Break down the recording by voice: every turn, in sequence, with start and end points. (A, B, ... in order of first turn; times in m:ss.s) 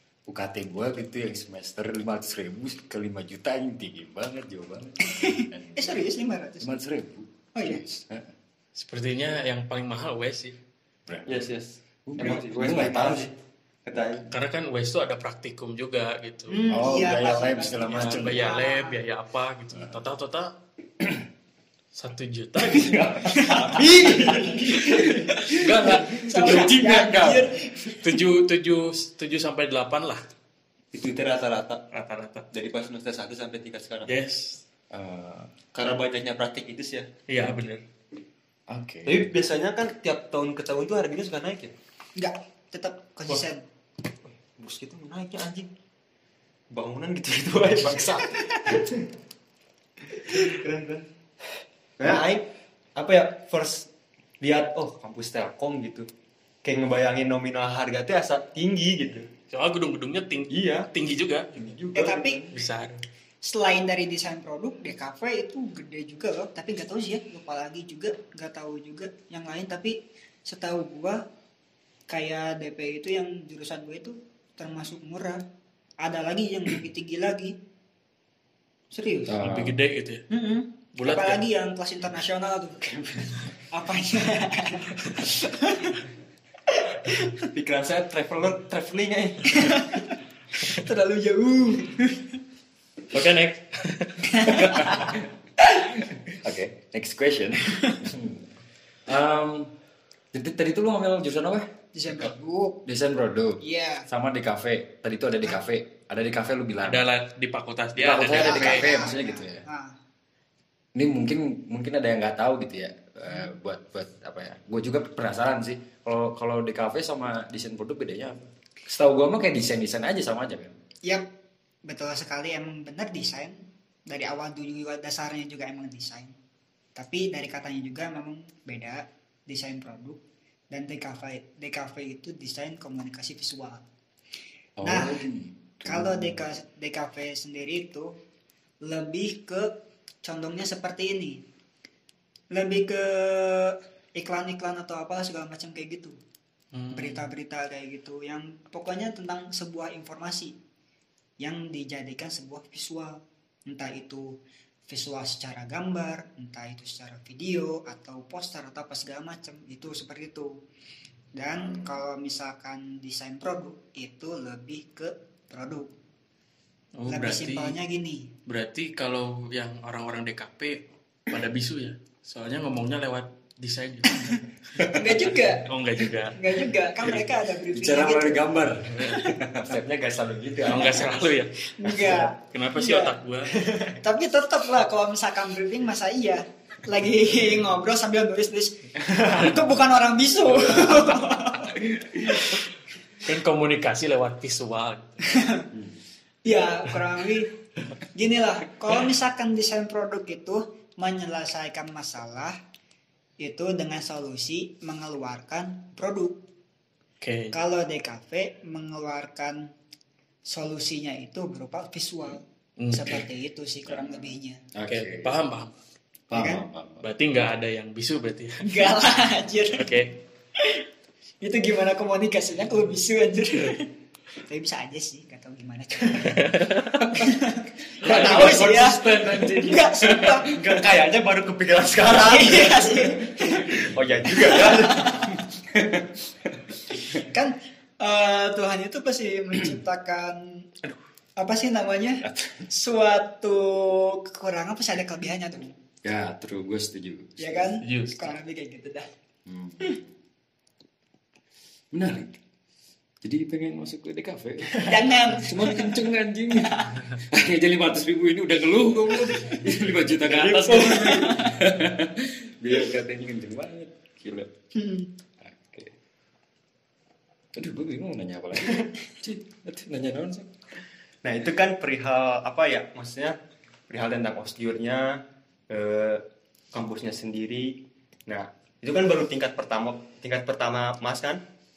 0:00.3-0:06.0 A
0:05.0-0:06.7 B
0:06.6-0:08.3 A
0:07.5-0:07.8 B
0:08.7-0:10.6 C
0:11.1-0:11.4 A
0:11.2-0:13.3 D
0:12.1-0:13.3 A
0:13.8-0:14.3 D
0:14.3-0:16.6 C
0:16.5-0:19.0 B
0:16.7-0:18.5 A
0:17.8-0:20.5 C
0:21.0-0:21.2 A
0:21.9-0:23.0 C
0:22.6-0:27.6 A
0:23.3-0:24.5 B
0:23.6-0:25.3 D
0:26.1-0:28.0 B
0:26.2-0:26.7 C
0:27.8-0:30.2 C
0:30.9-0:31.8 D
0:31.9-0:32.4 C
0:32.5-0:34.1 D
0:34.0-0:34.6 C
0:34.9-0:35.5 A
0:35.7-0:37.1 D
0:37.3-0:37.8 C
0:38.7-0:39.3 A
0:39.0-0:41.7 D
0:42.2-0:43.6 B
0:44.2-0:45.7 D
0:46.7-0:49.1 D
0:50.1-0:51.1 D
0:52.0-0:53.9 D
0:54.4-0:56.1 D
0:56.6-0:59.3 D
0:59.5-1:01.6 C
1:00.5-1:00.9 D
1:01.5-1:02.6 D
1:01.9-1:02.4 B
1:02.5-1:03.0 C
1:03.4-1:11.2 B
1:12.1-1:15.4 B
1:16.0-1:17.6 B
1:18.9-1:19.4 B
1:19.3-1:19.8 A
1:19.4-1:20.2 C
1:20.3-1:23.0 B
1:21.0-1:21.4 C
1:22.9-1:23.3 D
1:23.7-1:26.0 B
1:26.7-1:27.5 B
1:27.5-1:29.9 D
1:29.5-1:30.0 B
1:30.7-1:32.4 B
1:33.1-1:35.0 C
1:34.3-1:35.1 B
1:36.3-1:38.4 A
1:39.1-1:39.7 A
1:40.3-1:42.2 A
1:41.9-1:42.8 B
1:42.8-1:47.0 A
1:43.6-1:44.1 B
1:46.8-1:49.0 C
1:48.0-1:49.6 A
1:48.3-1:49.9 B
1:50.9-2:00.7 A
2:01.8-2:06.3 B
2:07.0-2:10.2 B
2:10.7-2:13.8 B
2:14.8-2:16.4 A
2:14.8-2:15.2 B
2:15.8-2:18.1 B
2:18.8-2:21.4 B
2:22.5-2:26.2 B
2:26.7-2:27.2 C
2:26.9-2:30.6 B
2:31.4-2:34.4 B
2:34.9-2:40.6 B
2:41.3-2:45.9 B
2:47.0-2:47.8 C
2:47.1-2:48.3 B
2:48.5-2:54.9 C
2:54.1-2:55.7 B
2:55.4-2:56.4 C
2:56.3-2:58.5 B
2:57.7-2:59.8 A
2:59.6-3:01.2 D
3:00.6-3:03.5 C
3:01.8-3:03.2 B
3:03.5-3:04.0 D
3:03.9-3:12.5 B
3:13.2-3:15.4 C
3:15.2-3:15.7 B
3:16.4-3:17.5 B
3:18.1-3:22.6 B
3:23.4-3:26.4 B
3:27.2-3:27.5 C
3:27.5-3:29.7 B
3:30.4-3:34.6 B
3:32.8-3:33.2 C
3:34.7-3:35.3 A
3:34.9-3:35.8 C
3:36.3-3:37.1 A
3:36.3-3:36.6 B
3:37.0-3:39.0 C
3:38.6-3:39.9 B
3:39.7-3:40.1 C
3:40.6-3:40.8 B
3:41.4-3:46.5 B
3:46.3-3:47.0 C
3:47.1-3:50.6 B
3:48.0-3:48.9 D
3:48.0-3:50.3 A
3:48.1-3:49.0 C
3:50.4-3:53.2 D
3:52.1-3:55.3 B
3:53.7-3:56.0 D
3:57.2-4:00.7 B
4:01.4-4:05.7 B
4:02.3-4:02.6 D
4:06.0-4:07.8 A
4:07.4-4:09.1 B
4:07.8-4:08.3 C
4:09.4-4:09.9 A
4:11.9-4:12.4 A
4:13.2-4:24.5 A
4:14.8-4:17.0 B
4:20.2-4:21.4 D
4:20.8-4:21.5 B
4:24.7-4:25.1 B
4:25.4-4:25.9 A
4:27.5-4:30.5 A
4:31.2-4:33.4 D
4:33.9-4:41.4 D